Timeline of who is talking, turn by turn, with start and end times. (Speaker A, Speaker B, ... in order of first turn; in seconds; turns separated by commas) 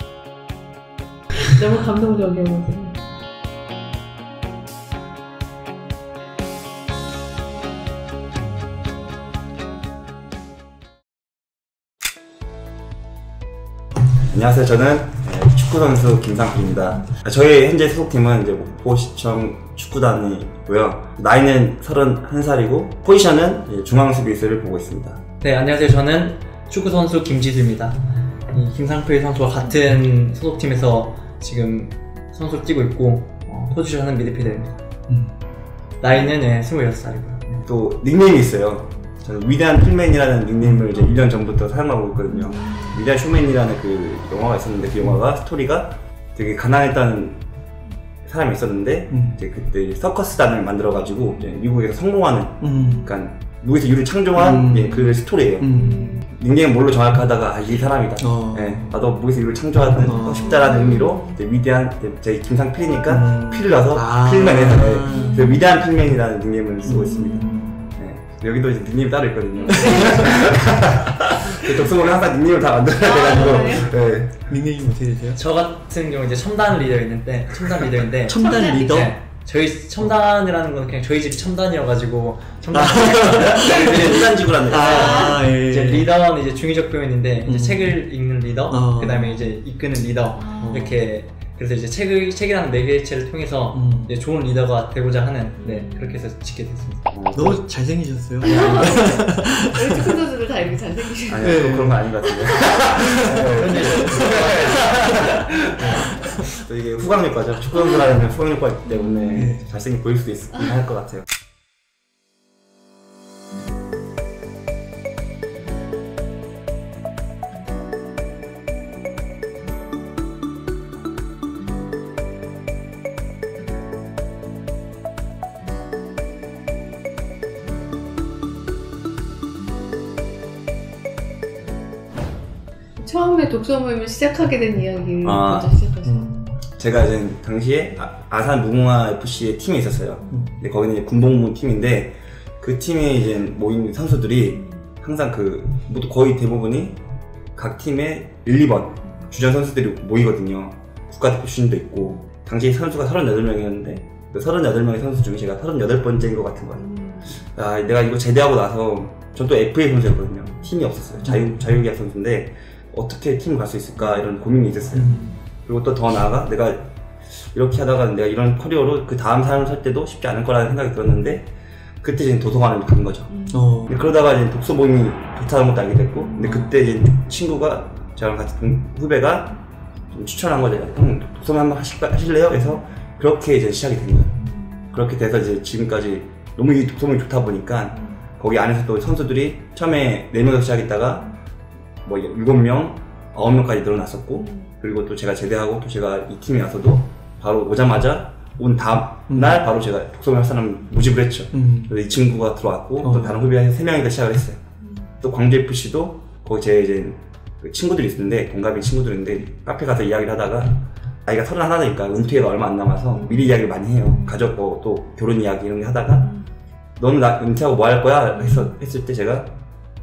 Speaker A: 1.4-3.0, Speaker B: 14.2-25.2, Speaker C: 25.4-34.8, Speaker D: 35.1-35.4, Speaker C: 36.0-37.6, Speaker B: 37.6-47.4, Speaker D: 40.6-41.0, Speaker A: 42.4-42.9, Speaker B: 48.2-55.7, Speaker D: 49.1-49.4, Speaker D: 52.6-53.1, Speaker A: 52.8-53.1, Speaker D: 54.4-56.2, Speaker A: 55.7-56.2, Speaker B: 56.2-74.5, Speaker D: 58.2-59.0, Speaker D: 60.0-60.7, Speaker A: 60.4-61.3, Speaker D: 63.1-65.6, Speaker A: 65.1-65.8, Speaker D: 66.9-67.7, Speaker A: 67.0-67.8, Speaker A: 69.6-70.5, Speaker A: 73.0-73.9, Speaker D: 74.5-75.4, Speaker C: 75.4-97.1, Speaker D: 78.3-79.2, Speaker A: 78.3-79.1, Speaker D: 82.7-86.1, Speaker B: 83.3-85.3, Speaker A: 84.9-85.4, Speaker D: 87.4-88.0, Speaker D: 88.7-89.5, Speaker A: 90.4-90.9, Speaker D: 90.6-91.0, Speaker D: 93.7-94.1, Speaker A: 95.6-96.2, Speaker B: 97.1-97.6, Speaker D: 97.3-100.2, Speaker A: 98.4-102.9, Speaker B: 101.3-111.2, Speaker D: 101.4-102.0, Speaker D: 102.9-106.5, Speaker A: 105.1-105.8, Speaker A: 108.9-109.5, Speaker D: 109.3-109.7, Speaker A: 133.0-136.3, Speaker B: 135.2-135.7, Speaker D: 136.0-136.6, Speaker B: 136.8-147.0, Speaker D: 140.3-140.6, Speaker B: 147.6-156.8, Speaker A: 156.8-157.3, Speaker B: 157.5-166.9, Speaker D: 161.2-161.5, Speaker D: 164.9-165.3, Speaker B: 167.5-171.5, Speaker B: 172.0-179.5, Speaker A: 173.3-173.9, Speaker D: 173.5-173.9, Speaker A: 176.4-176.7, Speaker B: 180.1-184.4, Speaker A: 184.5-184.9, Speaker B: 184.9-191.3, Speaker B: 192.1-204.6, Speaker A: 194.4-194.7, Speaker D: 199.3-199.6, Speaker D: 201.5-201.9, Speaker D: 203.0-203.3, Speaker B: 205.2-216.3, Speaker B: 217.0-219.5